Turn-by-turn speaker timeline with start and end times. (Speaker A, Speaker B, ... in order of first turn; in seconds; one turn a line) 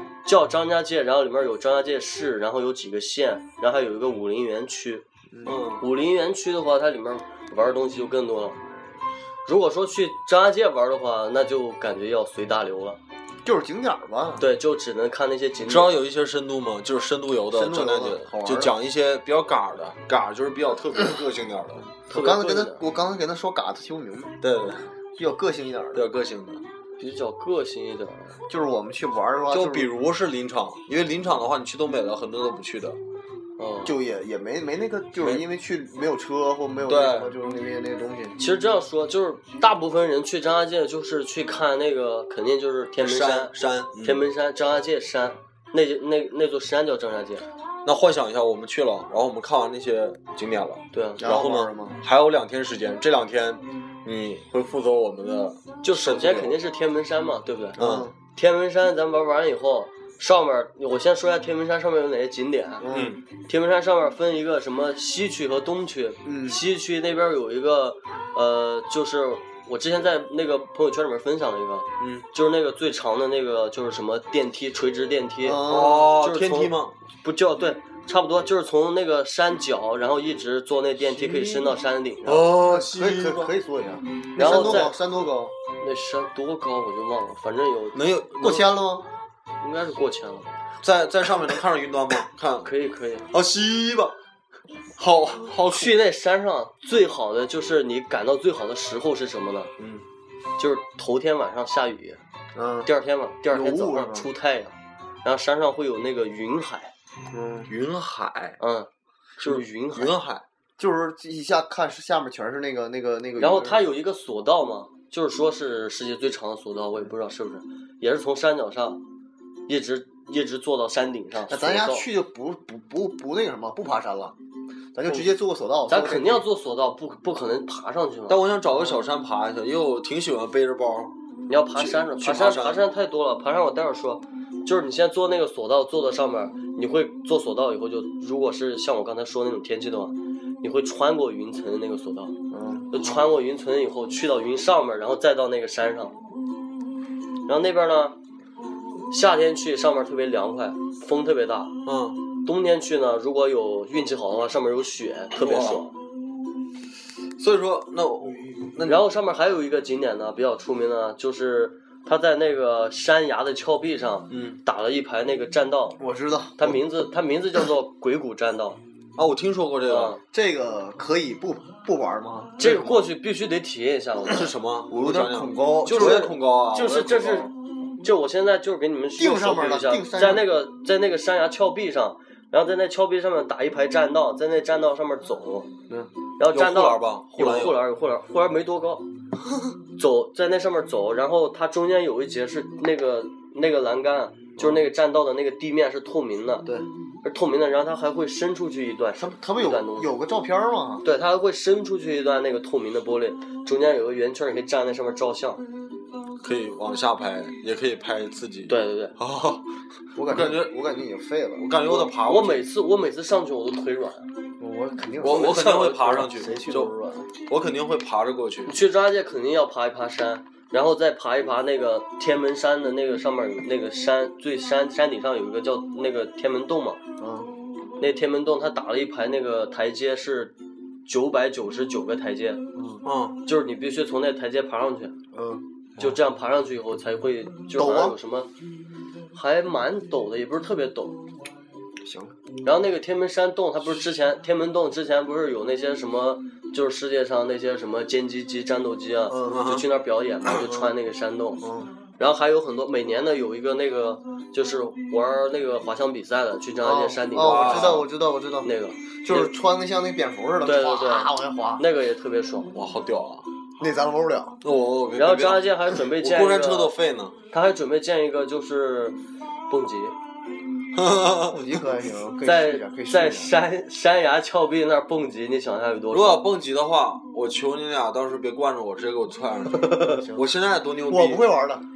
Speaker A: 0.2-5.0
Speaker B: 5.5-5.8
Speaker A: 5.8-8.6
Speaker A: 9.5-13.0
Speaker C: 13.4-14.5
Speaker A: 14.4-16.0
Speaker B: 15.6-21.9
Speaker C: 17.5-18.8
Speaker C: 22.0-24.4
Speaker A: 22.1-22.8
Speaker B: 24.4-24.9
Speaker C: 25.2-26.0
Speaker B: 25.9-26.6
Speaker A: 27.0-28.4
Speaker C: 28.5-29.9
Speaker B: 29.5-33.0
Speaker A: 33.6-34.0
Speaker C: 33.9-38.4
Speaker B: 35.2-35.5
Speaker B: 36.9-37.3
Speaker A: 38.4-47.5
Speaker B: 43.0-44.2
Speaker B: 47.9-56.6
Speaker A: 50.9-51.3
Speaker C: 51.2-52.0
Speaker A: 55.8-57.8
Speaker B: 57.8-58.1
Speaker C: 57.8-58.1
Speaker A: 58.3-62.9
Speaker C: 62.8-63.2
Speaker B: 62.9-63.2
Speaker A: 63.5-82.4
Speaker C: 66.2-66.6
Speaker B: 72.0-72.3
Speaker C: 75.4-76.2
Speaker B: 75.7-77.0
Speaker B: 81.0-81.7
Speaker B: 82.2-83.5
Speaker C: 82.4-85.5
Speaker A: 84.4-85.0
Speaker B: 84.5-84.8
Speaker A: 85.8-88.0
Speaker B: 87.9-88.7
Speaker C: 88.4-89.1
Speaker A: 89.6-90.5
Speaker B: 90.8-92.7
Speaker A: 92.7-93.3
Speaker B: 93.3-94.2
Speaker B: 95.0-96.0
Speaker A: 95.7-99.7
Speaker B: 99.8-100.0
Speaker A: 100.6-102.2
Speaker C: 102.5-102.9
Speaker A: 102.9-106.9
Speaker C: 103.5-104.3
Speaker C: 107.3-107.7
Speaker B: 107.7-108.6
Speaker A: 108.6-108.9
Speaker B: 109.4-110.4
Speaker A: 109.4-110.1
Speaker C: 110.8-114.0
Speaker A: 113.4-119.0
Speaker A: 119.7-122.1
Speaker C: 121.5-124.3
Speaker C: 125.0-126.5
Speaker A: 125.9-128.4
Speaker B: 128.3-131.1
Speaker A: 131.5-142.4
Speaker B: 131.8-132.9
Speaker C: 142.5-143.1
Speaker A: 142.9-146.2
Speaker A: 147.5-148.2
Speaker A: 149.1-151.8
Speaker B: 151.8-152.2
Speaker A: 152.4-155.9
Speaker B: 155.3-155.8
Speaker B: 157.4-159.0
Speaker A: 158.9-166.0
Speaker B: 164.3-164.6
Speaker C: 166.0-166.8
Speaker A: 166.6-168.8
Speaker B: 169.2-170.2
Speaker A: 169.9-170.2
Speaker C: 170.3-172.8
Speaker A: 172.6-174.5
Speaker B: 172.6-173.0
Speaker B: 174.3-177.5
Speaker C: 174.9-176.3
Speaker A: 175.9-185.7
Speaker C: 179.2-180.5
Speaker A: 186.4-189.1
Speaker B: 186.5-187.8
Speaker A: 190.0-196.7
Speaker A: 197.2-200.1
Speaker C: 199.2-201.0
Speaker A: 201.0-205.6
Speaker B: 206.4-209.7
Speaker A: 208.7-209.2
Speaker C: 210.2-211.8
Speaker B: 210.2-210.7
Speaker B: 211.6-212.7
Speaker A: 211.9-214.3
Speaker C: 214.6-217.3
Speaker B: 215.2-216.9
Speaker A: 215.2-216.3
Speaker B: 217.5-218.8
Speaker A: 218.7-227.0
Speaker C: 227.2-227.5
Speaker A: 228.0-230.5
Speaker A: 231.1-232.6
Speaker C: 232.8-233.0
Speaker B: 233.1-233.4
Speaker A: 233.5-235.2
Speaker C: 235.3-235.6
Speaker A: 236.0-238.5
Speaker C: 237.8-238.2
Speaker A: 239.3-241.2
Speaker C: 242.0-242.4
Speaker A: 242.6-251.6
Speaker C: 249.3-249.7
Speaker B: 249.5-249.9
Speaker C: 250.6-250.9
Speaker C: 251.6-251.9
Speaker A: 252.2-258.1
Speaker C: 256.8-258.7
Speaker B: 257.4-258.1
Speaker A: 258.6-259.5
Speaker C: 259.2-261.9
Speaker A: 260.6-262.8
Speaker B: 262.7-263.4
Speaker C: 263.8-264.6
Speaker B: 264.6-267.4
Speaker A: 265.2-266.9
Speaker A: 267.5-269.2
Speaker A: 269.7-270.2
Speaker B: 270.9-271.8
Speaker C: 271.5-273.6
Speaker A: 272.4-276.4
Speaker B: 276.1-281.5
Speaker C: 279.9-280.5
Speaker C: 281.1-281.9